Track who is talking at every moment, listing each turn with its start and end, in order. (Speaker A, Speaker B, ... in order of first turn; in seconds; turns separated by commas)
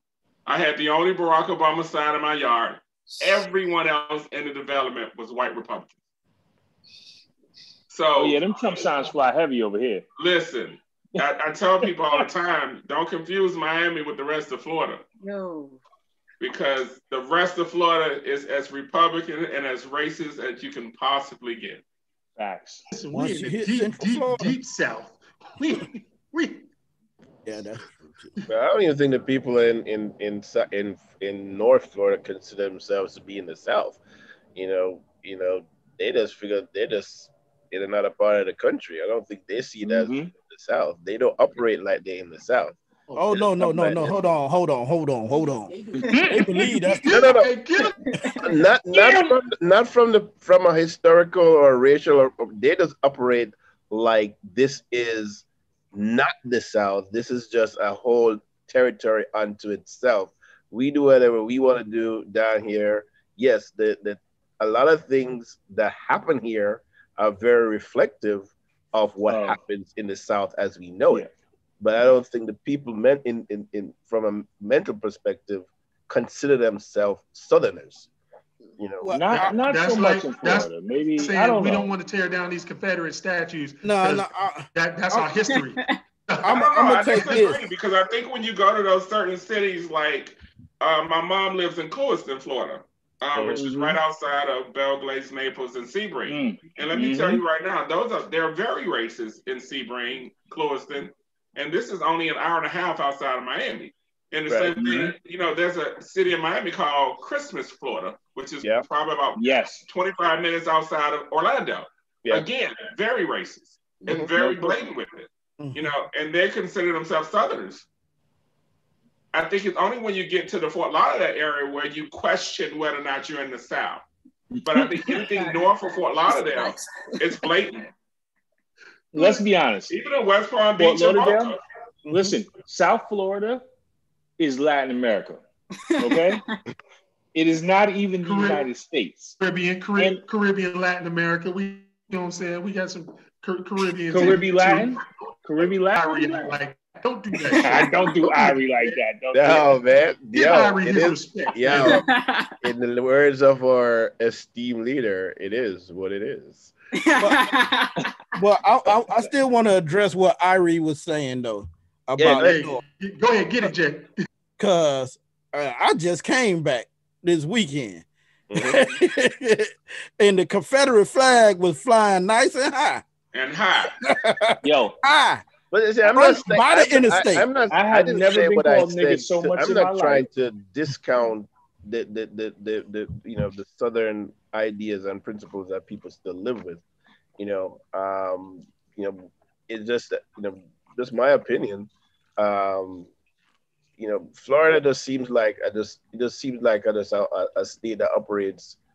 Speaker A: 0.5-5.9, Speaker A: 7.9-8.4, Speaker B: 8.2-10.1, Speaker A: 10.2-15.0, Speaker C: 15.2-15.8, Speaker A: 16.4-21.8, Speaker B: 22.4-22.9, Speaker D: 22.9-26.7, Speaker E: 23.1-24.6, Speaker E: 27.4-28.3, Speaker F: 28.5-34.0, Speaker F: 34.6-42.8, Speaker B: 39.8-40.3, Speaker D: 43.1-43.5, Speaker E: 43.2-47.2, Speaker F: 43.3-44.2, Speaker D: 46.1-48.0, Speaker F: 47.1-47.5, Speaker C: 48.0-48.4, Speaker F: 48.4-71.3, Speaker B: 49.0-49.2, Speaker B: 69.3-69.6, Speaker F: 71.8-78.1, Speaker F: 78.8-79.2, Speaker E: 79.0-79.3, Speaker B: 79.1-81.9, Speaker D: 79.3-87.4, Speaker E: 83.8-84.7, Speaker C: 85.1-85.9, Speaker E: 86.4-87.7, Speaker A: 86.5-117.9, Speaker F: 93.3-93.6, Speaker B: 93.5-93.9, Speaker B: 96.3-97.4, Speaker F: 104.5-105.1, Speaker B: 109.4-109.8, Speaker F: 114.0-114.3, Speaker B: 114.3-114.9, Speaker E: 115.6-115.9, Speaker A: 119.3-124.0, Speaker B: 124.6-124.9, Speaker A: 124.6-127.9, Speaker C: 125.1-125.7, Speaker C: 126.3-127.4, Speaker B: 129.1-130.0, Speaker C: 129.2-129.4, Speaker A: 129.9-131.6, Speaker B: 130.8-131.5, Speaker B: 132.1-133.6, Speaker B: 134.4-135.4, Speaker C: 135.9-136.6, Speaker B: 136.0-136.4, Speaker B: 137.3-139.4, Speaker D: 138.2-138.7, Speaker D: 139.4-145.0, Speaker B: 144.1-146.5, Speaker D: 145.9-148.6, Speaker B: 147.5-149.7, Speaker F: 149.3-152.1, Speaker D: 150.3-152.0, Speaker C: 151.7-152.6, Speaker F: 152.6-156.7, Speaker C: 157.0-158.1, Speaker E: 158.4-162.8, Speaker F: 162.2-162.7, Speaker D: 162.4-164.2, Speaker E: 164.6-173.0, Speaker F: 168.5-168.9, Speaker A: 173.3-174.0, Speaker E: 174.0-175.5, Speaker B: 174.6-175.0, Speaker F: 175.7-186.8, Speaker E: 176.1-177.5, Speaker B: 177.7-180.2, Speaker F: 187.4-193.1, Speaker F: 194.0-198.8